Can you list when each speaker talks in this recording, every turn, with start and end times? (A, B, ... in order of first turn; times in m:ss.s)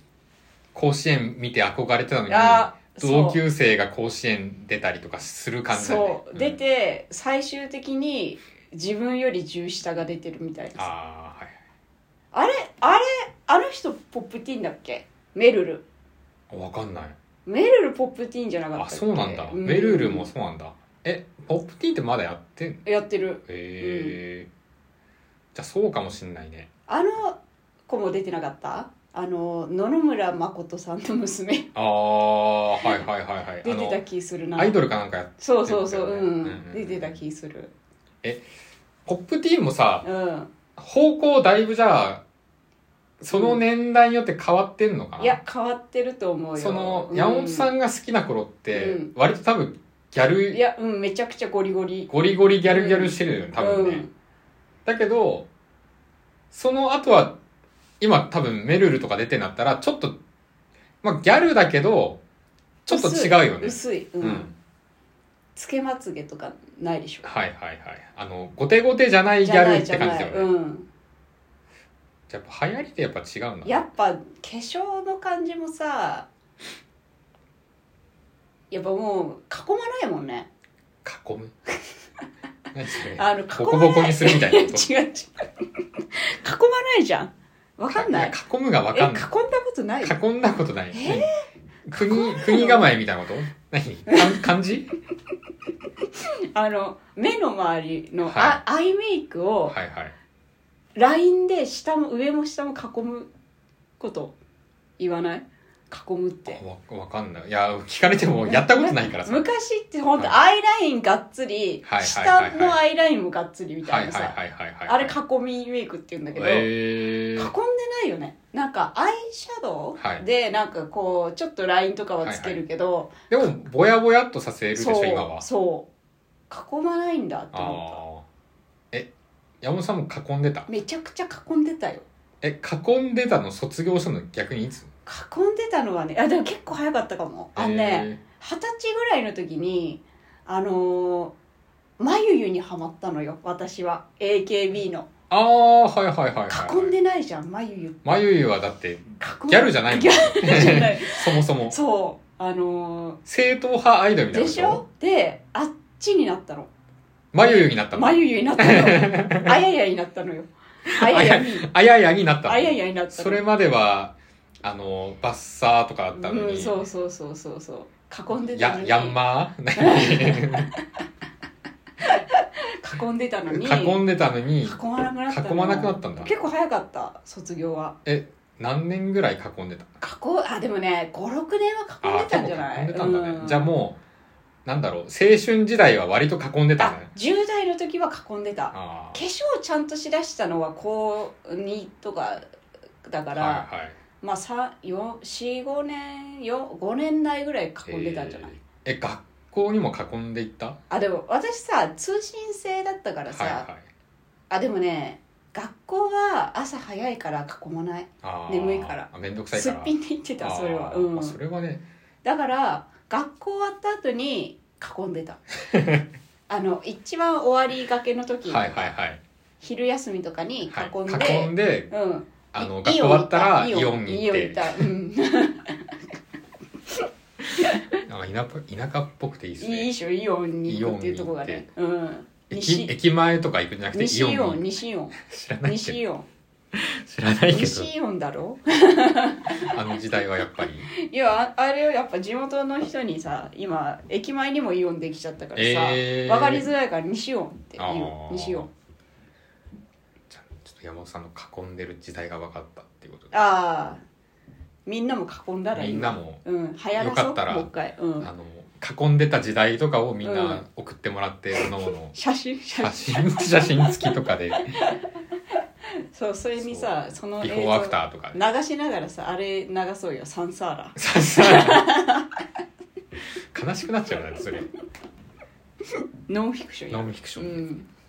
0:00.7-0:06.6 A
0:02.3-0:03.4 B
0:05.7-0:10.9 B
0:10.8-0:11.6 A
0:12.3-0:15.8 B
0:16.5-0:17.2 A
0:17.5-0:20.3 B
0:18.8-0:22.9 A
0:22.8-0:24.2 B
0:23.5-0:24.5 A
0:25.5-0:26.7 A
0:26.9-0:31.7 B
0:31.8-0:34.0 A
0:33.6-0:34.8 B
0:34.6-0:37.2 A
0:35.4-0:37.7 B
0:39.1-0:40.1 A
0:40.0-0:40.5 B
0:40.8-0:42.2 A
0:43.2-0:45.4 A
0:43.3-0:43.6 B
0:45.2-0:47.7 B
0:46.6-0:50.6 A
0:48.7-0:49.1 B
0:50.5-0:52.1 B
0:52.1-0:54.0 A
0:52.6-0:54.1 B
0:54.9-0:55.5 A
0:56.5-0:57.4 A
0:58.0-1:00.2 A
1:01.0-1:02.2 A
1:02.9-1:04.5 B
1:02.9-1:04.5 A
1:05.6-1:07.3 B
1:07.2-1:10.5 A
1:09.4-1:10.9 B
1:12.3-1:13.9 A
1:13.6-1:16.3 B
1:18.7-1:20.5 B
1:21.0-1:21.5 A
1:22.7-1:24.9 A
1:23.2-1:25.5 B
1:26.2-1:28.4 B
1:27.9-1:29.3 A
1:28.9-1:30.2 B
1:30.0-1:31.3 A
1:30.9-1:31.3 B
1:31.9-1:34.9 A
1:32.0-1:32.9 B
1:36.5-1:39.8 B
1:38.2-1:38.6 A
1:39.7-1:40.1 A
1:41.0-1:43.3 B
1:44.0-1:44.4 B
1:45.0-1:46.6 B
1:46.5-1:49.5 A
1:48.5-1:56.7 B
1:51.8-1:52.8 A
1:53.8-1:55.2 A
1:56.4-1:57.5 A
1:57.4-2:03.3 B
2:00.0-2:00.2 A
2:02.2-2:02.6 A
2:03.3-2:05.5 A
2:04.8-2:05.9 B
2:06.5-2:08.0 B
2:07.5-2:08.2 A
2:09.6-2:10.7 A
2:10.7-2:12.0 B
2:12.4-2:14.9 A
2:15.1-2:21.4 B
2:17.6-2:18.2 A
2:22.0-2:25.1 B
2:25.3-2:26.9 A
2:26.5-2:28.0 B
2:28.0-2:31.8 A
2:29.2-2:33.2 B
2:33.3-2:34.8 A
2:34.3-2:36.7 B
2:37.3-2:39.6 A
2:37.4-2:41.7 B
2:40.9-2:46.8 A
2:42.4-2:43.4 B
2:46.1-2:49.2 B
2:48.4-2:50.7 A
2:49.8-2:50.8 B
2:52.0-2:54.0 B
2:53.5-2:56.4 A
2:54.6-2:58.0 B
2:58.0-2:59.9 A
3:00.0-3:03.7 B
3:02.0-3:04.0 A
3:04.6-3:07.1 A
3:06.8-3:12.4 B
3:08.7-3:09.2 A
3:13.0-3:13.7 B
3:13.3-3:14.0 A
3:14.2-3:18.5 B
3:17.9-3:20.8 A
3:20.9-3:23.7 B
3:23.3-3:23.9 A
3:24.5-3:31.4 B
3:28.2-3:31.8 A
3:32.2-3:35.4 B
3:35.7-3:36.0 A
3:36.5-3:38.9 B
3:38.5-3:39.2 A
3:39.6-3:46.0 B
3:40.7-3:41.9 A
3:42.5-3:44.9 A
3:47.6-3:48.0 B
3:48.0-3:49.9 A
3:49.6-3:52.9 B
3:50.7-3:51.7 A
3:52.5-3:56.0 A
3:53.9-3:56.3 B
3:56.7-3:57.9 A
3:57.5-3:59.7 B
3:59.6-4:00.9 A
4:01.0-4:08.7 B
4:05.6-4:06.7 A
4:07.8-4:08.7 A
4:10.3-4:13.3 A
4:13.3-4:14.0 B
4:14.9-4:18.3 B
4:15.7-4:16.4 A
4:17.0-4:17.7 A
4:18.2-4:22.2 A
4:20.2-4:20.6 B
4:21.6-4:24.1 B
4:22.8-4:24.7 A
4:26.1-4:32.3 B
4:26.6-4:26.9 A
4:27.4-4:28.4 A
4:31.0-4:31.9 A
4:33.5-4:34.7 A
4:36.3-4:37.9 B
4:36.9-4:37.7 A